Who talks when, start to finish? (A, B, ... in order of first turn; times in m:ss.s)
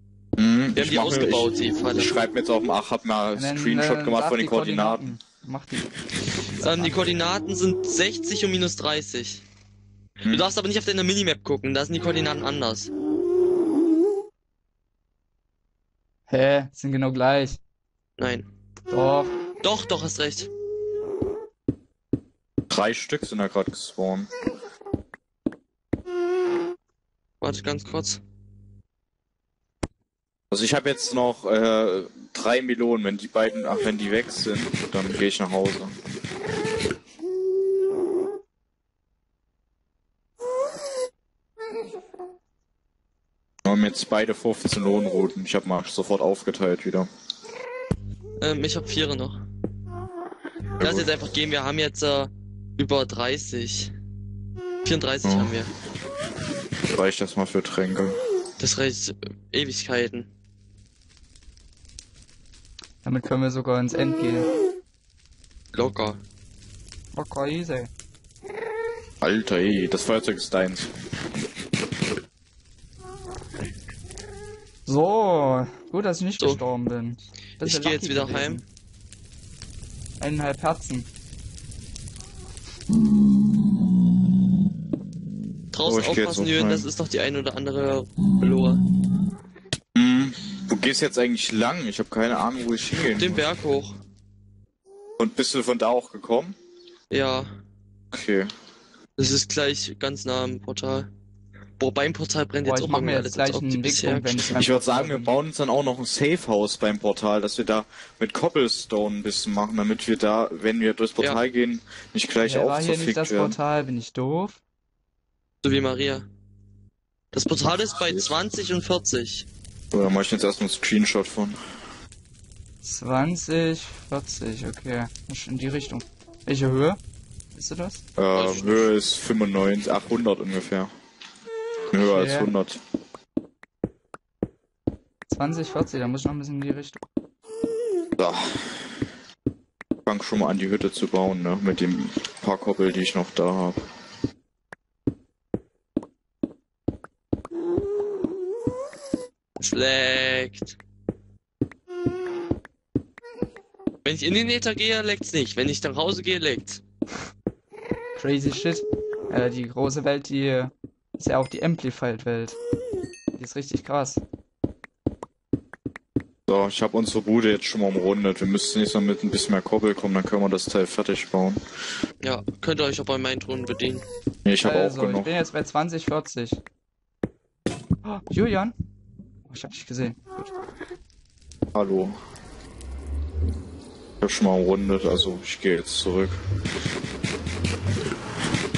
0:00.4-0:05.2 A
0:00.8-0:02.1 B
0:03.3-0:05.9 C
0:06.6-0:09.4 B
0:06.6-0:06.9 C
0:10.2-0:12.9 B
0:16.3-0:17.6 C
0:18.2-0:18.5 B
0:18.9-0:19.3 C
0:19.6-0:20.5 B
0:22.7-0:24.3 A
0:27.4-0:28.2 B
0:30.5-0:35.9 A
0:43.6-0:47.1 A
0:48.4-0:49.4 B
0:50.8-0:51.1 A
0:50.8-0:53.9 B
0:54.8-0:55.7 B
0:55.2-0:55.6 A
0:56.9-0:58.2 A
0:58.6-1:00.3 B
1:03.0-1:04.5 C
1:05.7-1:06.2 B
1:07.1-1:07.9 C
1:09.2-1:10.9 A
1:14.9-1:18.6 C
1:17.6-1:18.6 B
1:20.2-1:21.1 C
1:25.7-1:28.8 B
1:25.9-1:26.9 A
1:30.0-1:33.4 A
1:33.2-1:34.0 B
1:35.2-1:36.6 A
1:37.1-1:37.5 B
1:38.1-1:38.5 A
1:39.2-1:41.1 B
1:41.8-1:44.5 B
1:42.6-1:45.4 C
1:44.5-1:53.6 A
1:52.4-1:54.6 C
1:55.6-1:56.3 B
1:57.3-1:59.5 B
1:58.0-1:58.3 A
1:59.9-2:01.6 A
2:02.8-2:07.0 C
2:07.6-2:08.0 C
2:08.2-2:10.9 A
2:08.3-2:08.9 B
2:11.9-2:12.8 A
2:12.0-2:12.5 C
2:15.3-2:17.1 C
2:18.2-2:18.9 A
2:20.1-2:23.8 A
2:29.6-2:30.8 B
2:34.0-2:36.8 B
2:38.2-2:42.6 C
2:43.4-2:44.2 C
2:46.5-2:51.6 A
2:52.2-2:54.0 B
2:54.4-2:55.4 A
2:54.6-2:56.6 C
2:58.0-2:58.7 C
2:59.5-3:00.5 C
3:01.7-3:02.2 A
3:04.2-3:06.4 A